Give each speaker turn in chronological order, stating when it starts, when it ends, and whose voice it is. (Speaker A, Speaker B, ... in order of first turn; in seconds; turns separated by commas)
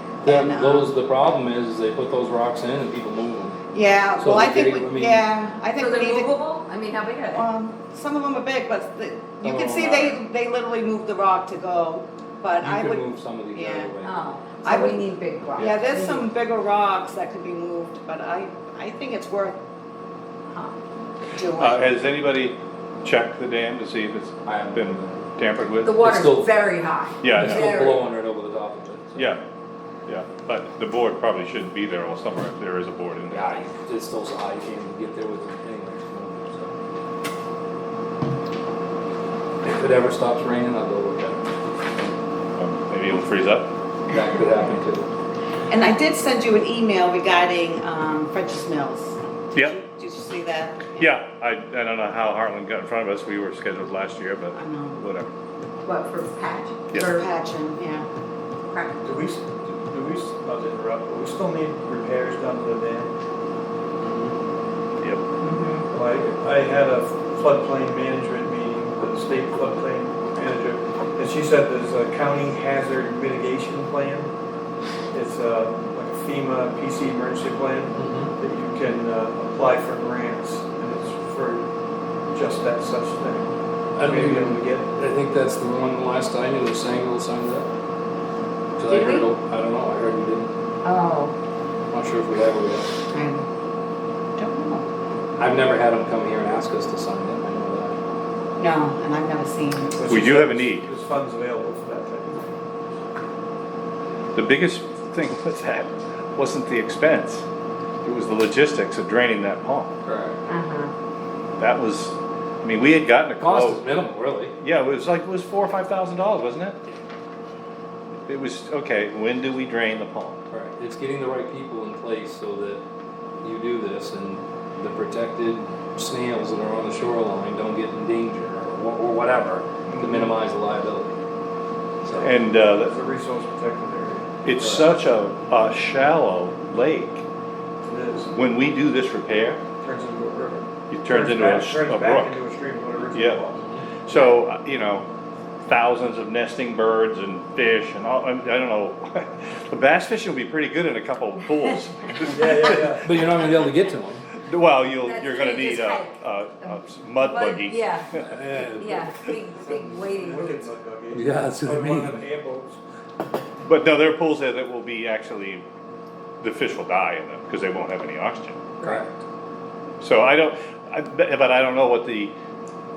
Speaker A: 0.2-0.9, Speaker B: 0.2-3.6, Speaker A: 3.7-6.4, Speaker B: 4.2-5.2, Speaker C: 5.7-7.5, Speaker A: 7.3-13.9, Speaker B: 9.4-10.2, Speaker B: 12.6-14.1, Speaker C: 14.0-16.3, Speaker A: 14.6-19.6, Speaker A: 21.3-21.9, Speaker D: 21.5-26.0, Speaker C: 25.8-28.1, Speaker B: 26.0-26.5, Speaker D: 27.2-27.8, Speaker B: 27.3-29.4, Speaker D: 29.1-29.4, Speaker D: 30.1-33.6, Speaker B: 33.3-36.7, Speaker B: 39.6-41.4, Speaker D: 42.6-43.7, Speaker B: 44.1-45.1, Speaker A: 45.7-51.1, Speaker D: 51.0-55.3, Speaker A: 54.5-55.0, Speaker C: 55.8-57.0, Speaker A: 56.9-58.1, Speaker C: 58.7-59.0, Speaker E: 59.0-63.1, Speaker B: 64.0-64.3, Speaker A: 65.4-65.8, Speaker E: 65.9-74.3, Speaker E: 75.1-81.6, Speaker B: 78.0-78.3, Speaker E: 82.3-83.5, Speaker B: 84.0-87.7, Speaker E: 84.0-84.9, Speaker B: 88.8-90.5, Speaker C: 88.9-89.3, Speaker C: 90.8-91.3, Speaker B: 91.9-92.9, Speaker A: 93.1-93.4, Speaker A: 94.4-94.8, Speaker B: 95.4-98.0, Speaker A: 98.6-100.0, Speaker E: 99.9-102.5, Speaker D: 100.0-100.9, Speaker D: 104.3-107.4, Speaker D: 108.0-109.9, Speaker B: 110.0-110.4, Speaker C: 110.5-110.9, Speaker D: 111.6-113.8, Speaker B: 113.4-114.5, Speaker D: 114.6-116.8, Speaker D: 118.2-120.4, Speaker B: 120.5-122.8, Speaker B: 123.4-131.1, Speaker E: 129.9-130.3, Speaker B: 132.0-132.3, Speaker D: 132.2-132.9, Speaker E: 132.2-134.9, Speaker D: 134.4-137.2, Speaker E: 137.8-138.3, Speaker D: 138.3-139.6, Speaker E: 139.8-143.6, Speaker D: 140.9-142.4, Speaker D: 143.1-143.4, Speaker B: 143.6-143.8, Speaker D: 144.1-145.0, Speaker D: 145.7-152.9, Speaker E: 152.3-153.2, Speaker B: 153.0-154.3, Speaker D: 154.4-158.4, Speaker C: 154.9-158.1, Speaker B: 158.2-159.1, Speaker C: 158.7-160.7, Speaker E: 159.6-162.8, Speaker B: 161.1-162.2, Speaker D: 163.6-165.6, Speaker D: 166.4-168.7, Speaker B: 168.8-169.1, Speaker D: 170.0-172.3